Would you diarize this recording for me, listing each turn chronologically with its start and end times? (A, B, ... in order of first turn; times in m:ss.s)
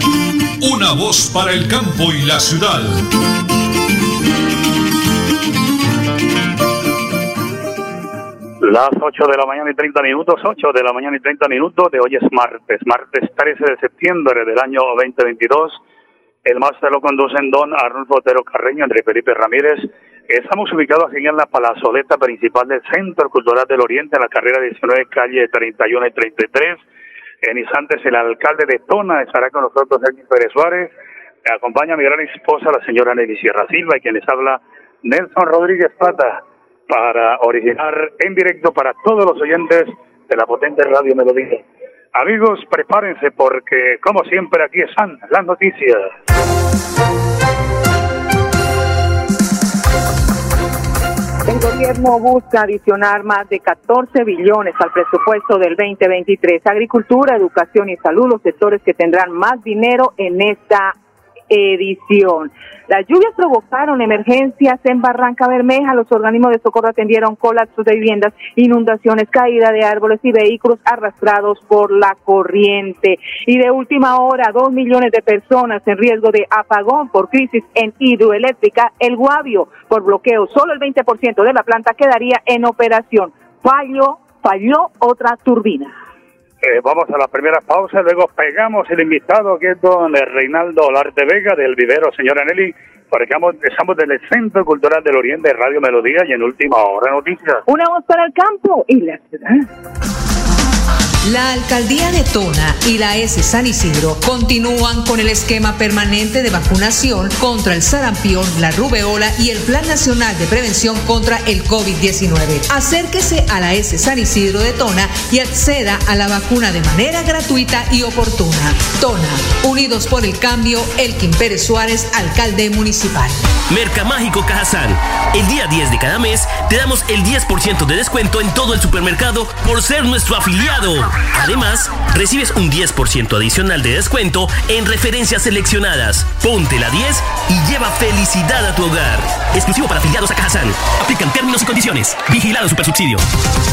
0:00.6-0:03.0 A
0:08.6-0:15.8 B
0:16.4-0:26.8 B
0:27.4-0:30.9 B
0:31.4-0:41.6 B
0:42.2-0:46.1 B
0:51.5-1:01.0 C
1:01.5-1:26.0 C
1:26.6-1:37.6 B
1:37.7-1:39.7 C
1:41.2-2:03.4 D
2:03.7-2:23.2 E